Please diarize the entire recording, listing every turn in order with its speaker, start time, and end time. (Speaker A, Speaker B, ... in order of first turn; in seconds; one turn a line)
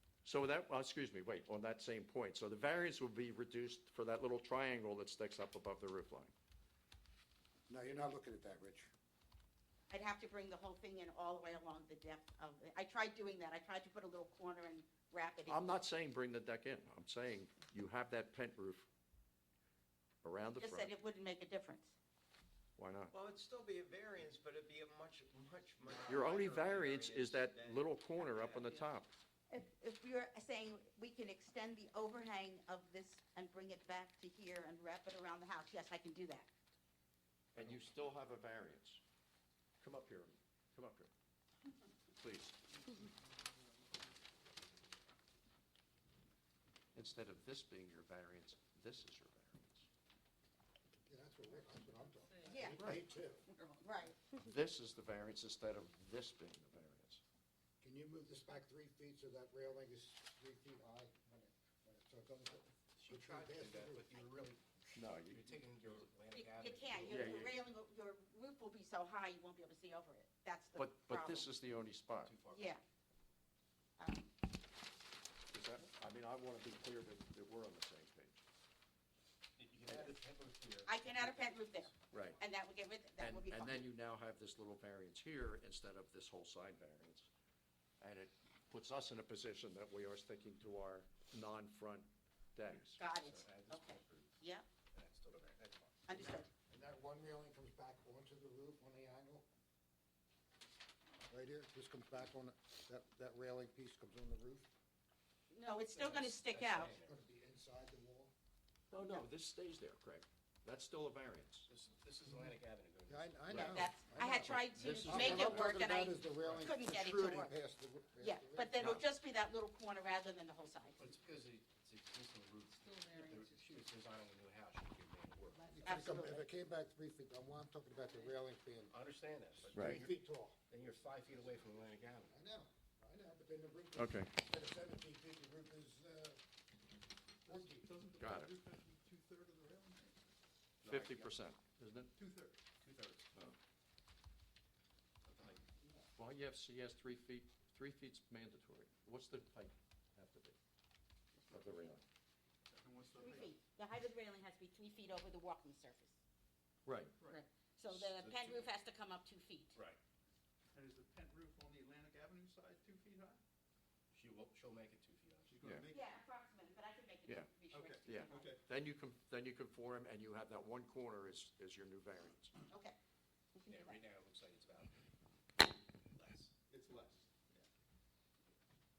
Speaker A: 0.2-6.3
Speaker B: 7.7-8.9
Speaker C: 9.9-15.7
Speaker A: 15.5-18.9
Speaker A: 20.2-20.9
Speaker C: 20.6-21.9
Speaker A: 22.8-23.1
Speaker D: 23.1-28.8
Speaker A: 26.1-29.1
Speaker C: 29.5-36.5
Speaker A: 37.5-39.0
Speaker A: 39.8-41.1
Speaker A: 42.2-43.0
Speaker A: 47.0-49.9
Speaker B: 51.1-53.5
Speaker C: 52.5-54.2
Speaker A: 54.5-57.2
Speaker B: 57.8-64.2
Speaker E: 63.0-67.5
Speaker A: 65.0-65.5
Speaker C: 66.3-71.5
Speaker A: 67.1-67.6
Speaker A: 70.8-72.4
Speaker E: 72.2-72.8
Speaker C: 72.5-72.8
Speaker C: 74.0-74.3
Speaker A: 75.5-78.4
Speaker E: 79.6-81.9
Speaker A: 79.9-80.2
Speaker C: 80.8-83.9
Speaker A: 82.1-82.4
Speaker A: 83.2-87.3
Speaker A: 88.0-93.0
Speaker C: 93.0-94.7
Speaker E: 93.2-94.4
Speaker E: 94.9-96.4
Speaker C: 96.1-96.5
Speaker B: 96.7-99.5
Speaker B: 101.3-104.7
Speaker C: 105.5-106.9
Speaker E: 105.9-107.2
Speaker B: 106.9-108.3
Speaker A: 108.9-111.7
Speaker C: 108.9-109.2
Speaker E: 111.7-113.9
Speaker B: 113.1-118.8
Speaker C: 113.5-117.5
Speaker A: 114.4-115.8
Speaker C: 118.2-121.1
Speaker A: 118.8-119.0
Speaker E: 121.0-125.8
Speaker B: 125.7-129.0
Speaker C: 125.8-126.5
Speaker E: 128.9-132.3
Speaker A: 129.7-130.0
Speaker B: 129.8-130.6
Speaker B: 132.3-136.4
Speaker A: 134.0-134.3
Speaker B: 137.5-137.9
Speaker F: 137.5-140.2
Speaker A: 138.2-138.6
Speaker E: 140.8-141.4
Speaker A: 140.8-142.1
Speaker F: 142.2-142.6
Speaker E: 142.8-143.3
Speaker E: 145.2-145.9
Speaker A: 146.2-150.6
Speaker A: 151.5-152.0
Speaker F: 152.7-153.6
Speaker C: 153.2-156.2
Speaker A: 156.8-157.2
Speaker C: 157.2-159.8
Speaker E: 157.9-158.7
Speaker F: 160.7-163.4
Speaker E: 164.1-165.6
Speaker F: 165.5-166.2
Speaker C: 165.9-168.5
Speaker F: 167.7-168.6
Speaker A: 168.1-172.5
Speaker C: 172.7-173.0
Speaker C: 173.6-174.0
Speaker E: 173.7-174.9
Speaker E: 176.1-176.6
Speaker F: 176.7-177.6